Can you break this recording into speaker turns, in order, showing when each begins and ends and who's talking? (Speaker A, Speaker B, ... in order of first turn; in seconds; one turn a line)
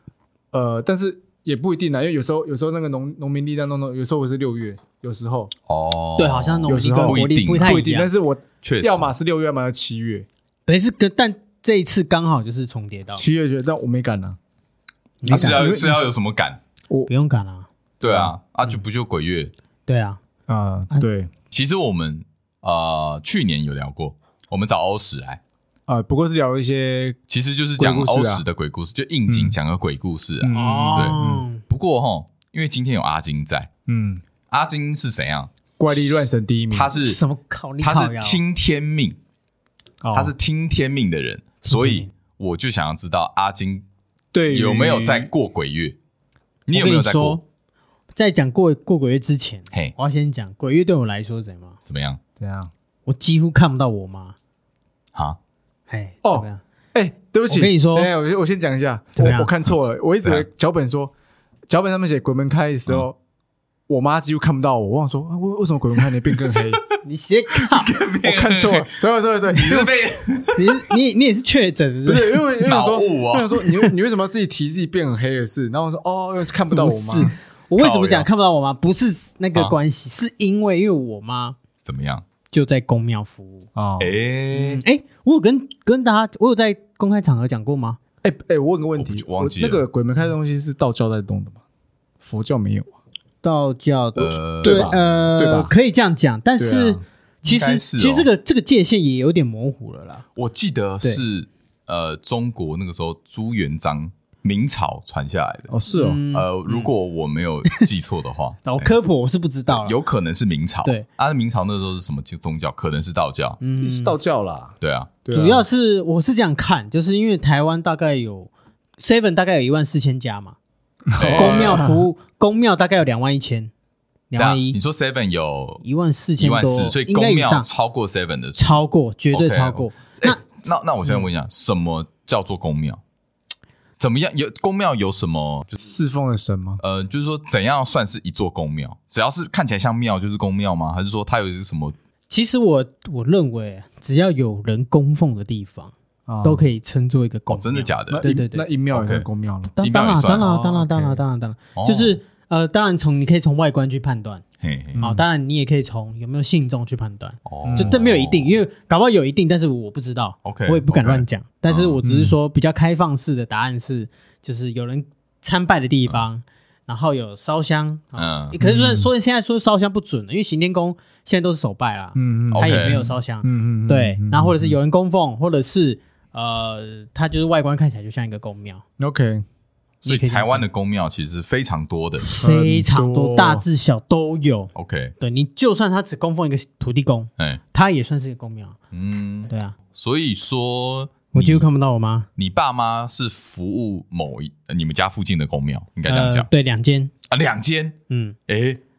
Speaker A: 0.5-5.5
Speaker B: 5.7-7.8
Speaker C: 6.2-8.1
Speaker A: 6.7-10.3
Speaker B: 8.6-9.1
Speaker C: 10.7-13.2
Speaker A: 13.2-14.4
Speaker C: 15.2-15.9
Speaker A: 15.3-16.0
Speaker B: 15.3-16.6
Speaker C: 17.1-17.7
Speaker B: 18.0-19.5
Speaker A: 18.0-18.3
Speaker C: 19.9-20.2
Speaker A: 20.5-21.3
Speaker B: 21.5-25.4
Speaker A: 25.9-27.2
Speaker B: 27.3-33.7
Speaker A: 27.8-28.4
Speaker A: 29.3-29.6
Speaker A: 30.4-31.4
Speaker C: 30.5-31.6
Speaker A: 33.9-34.2
Speaker B: 34.5-37.2
Speaker A: 35.8-36.9
Speaker C: 37.0-38.4
Speaker B: 37.8-39.2
Speaker A: 40.0-40.3
Speaker B: 40.1-43.9
Speaker C: 41.6-42.1
Speaker A: 44.3-45.3
Speaker B: 44.5-46.0
Speaker B: 46.7-47.4
Speaker C: 46.7-47.4
Speaker C: 48.1-51.8
Speaker B: 51.9-52.2
Speaker A: 52.4-52.7
Speaker C: 53.1-54.4
Speaker C: 55.9-56.6
Speaker A: 56.2-61.1
Speaker C: 57.5-58.1
Speaker C: 59.2-59.5
Speaker A: 61.7-63.2
Speaker A: 63.9-66.8
Speaker B: 66.3-67.0
Speaker C: 67.0-67.9
Speaker B: 67.6-68.9
Speaker A: 68.2-70.0
Speaker B: 69.5-70.9
Speaker C: 70.5-72.5
Speaker A: 72.1-77.3
Speaker B: 72.6-73.7
Speaker C: 76.7-81.6
Speaker B: 77.2-78.3
Speaker B: 81.8-82.2
Speaker C: 82.5-83.7
Speaker A: 83.8-84.1
Speaker B: 84.0-84.8
Speaker C: 84.5-88.0
Speaker A: 88.2-91.6
Speaker B: 89.0-89.8
Speaker A: 92.2-92.9
Speaker C: 93.4-100.2
Speaker B: 94.2-95.0
Speaker A: 94.6-95.7
Speaker A: 96.6-97.0
Speaker B: 97.4-98.3
Speaker B: 100.4-105.7
Speaker A: 105.7-106.2
Speaker C: 105.9-106.9
Speaker B: 106.3-109.0
Speaker C: 108.7-110.0
Speaker B: 109.7-113.6
Speaker C: 113.6-114.2
Speaker A: 113.8-115.7
Speaker B: 114.8-115.1
Speaker C: 115.3-120.6
Speaker A: 121.1-122.0
Speaker B: 121.2-121.9
Speaker C: 121.3-123.7
Speaker C: 124.3-124.8
Speaker B: 124.4-125.8
Speaker C: 125.8-127.7
Speaker B: 126.4-128.8
Speaker C: 128.6-130.4
Speaker B: 129.3-133.0
Speaker B: 134.0-135.8
Speaker A: 135.8-136.8
Speaker B: 136.8-141.9
Speaker C: 142.3-148.7
Speaker A: 146.3-146.7
Speaker B: 147.5-148.2
Speaker A: 148.1-149.7
Speaker B: 148.9-149.3
Speaker C: 149.7-154.4
Speaker B: 149.8-151.0
Speaker A: 150.4-151.2
Speaker B: 151.8-152.2
Speaker B: 154.6-155.1
Speaker A: 154.9-155.2
Speaker C: 155.0-178.8
Speaker B: 157.5-158.6
Speaker A: 157.6-158.0
Speaker B: 160.4-162.0
Speaker A: 162.0-162.4
Speaker B: 168.2-168.6
Speaker A: 168.6-169.1
Speaker A: 172.2-174.8
Speaker B: 172.5-173.0
Speaker A: 179.0-179.4
Speaker C: 180.0-180.7
Speaker B: 180.1-182.3
Speaker C: 182.3-188.8
Speaker A: 182.4-183.7
Speaker B: 184.8-185.1
Speaker B: 188.9-191.7
Speaker C: 189.5-189.8
Speaker C: 191.3-192.3
Speaker B: 192.4-196.5
Speaker C: 196.1-197.1
Speaker B: 197.3-198.0
Speaker C: 198.1-198.4
Speaker B: 198.5-198.8